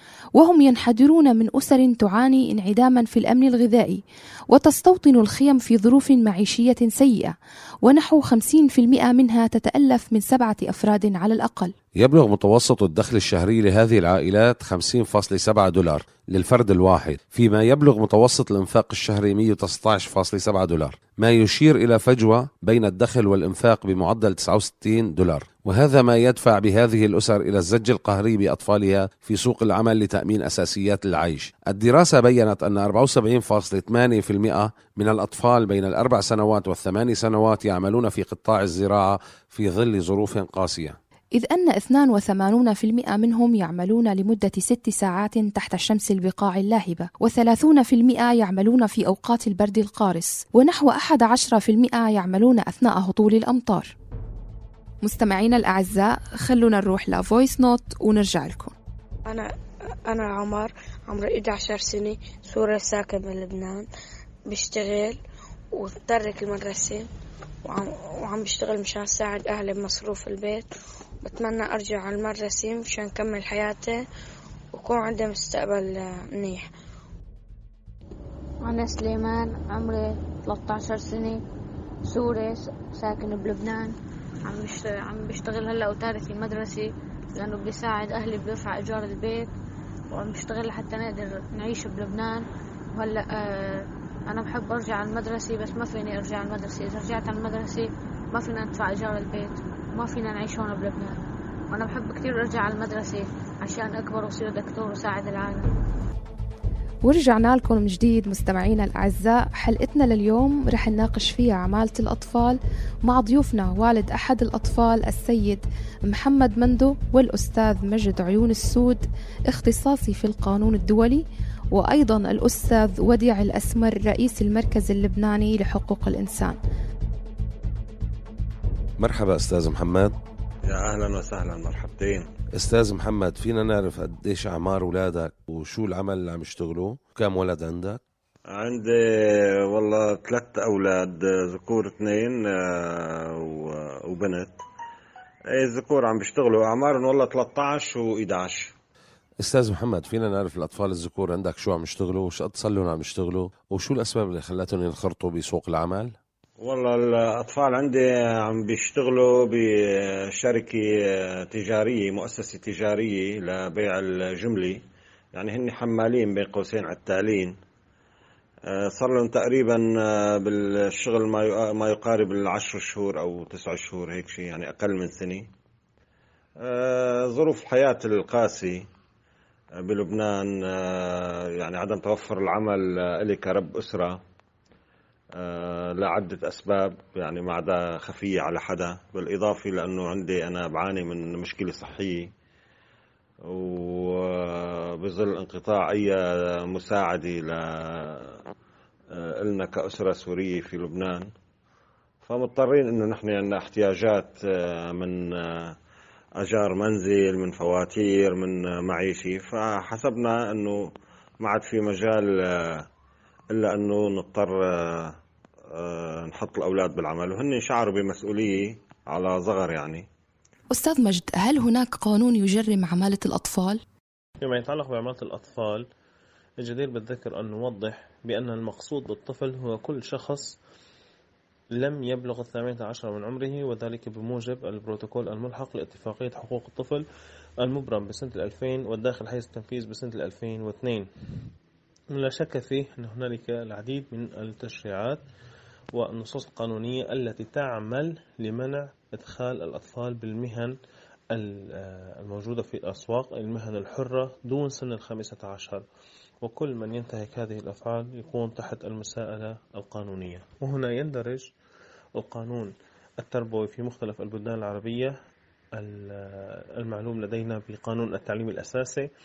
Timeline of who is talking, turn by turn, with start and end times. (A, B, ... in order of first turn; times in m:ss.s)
0:00.4-0:11.7 A
0:12.0-0:41.0 B
0:41.3-0:53.9 A
0:55.0-0:58.7 A
1:00.1-1:03.8 C
1:04.5-1:05.2 C
1:05.7-1:07.1 C
1:07.7-1:10.7 C
1:11.2-1:14.0 C
1:14.7-1:16.7 C
1:18.6-1:21.4 D
1:22.1-1:23.9 D
1:24.5-1:29.5 D
1:30.1-1:32.4 D
1:33.0-1:41.1 D
1:41.7-1:45.6 D
1:47.0-2:06.6 A
2:09.0-2:10.1 B
2:10.7-2:12.2 E
2:12.5-2:18.0 B
2:18.6-2:22.3 E
2:22.9-2:23.1 E
2:24.1-2:24.5 E
2:25.6-2:28.6 E
2:29.4-2:36.2 B
2:36.6-2:39.6 E
2:40.4-2:40.8 E
2:41.5-2:44.8 E
2:45.4-2:47.5 E
2:49.0-2:49.8 E
2:50.5-2:55.4 E
2:56.7-2:58.8 E
2:59.9-3:04.2 E
3:05.4-3:12.2 E
3:13.6-3:16.1 E
3:16.7-3:17.6 E
3:19.5-3:21.3 E
3:22.3-3:25.6 E
3:26.4-3:30.7 E
3:31.4-3:32.2 E
3:33.6-3:35.0 E
3:35.8-3:40.0 E
3:40.7-3:43.8 A
3:44.4-3:45.8 F
3:46.6-3:50.6 F
3:51.8-3:57.0 F
3:57.6-4:01.0 F
4:02.2-4:05.2 F
4:06.0-4:10.7 F
4:11.3-4:15.8 F
4:16.4-4:21.5 F
4:22.2-4:22.7 F
4:23.2-4:25.1 F
4:25.8-4:29.1 F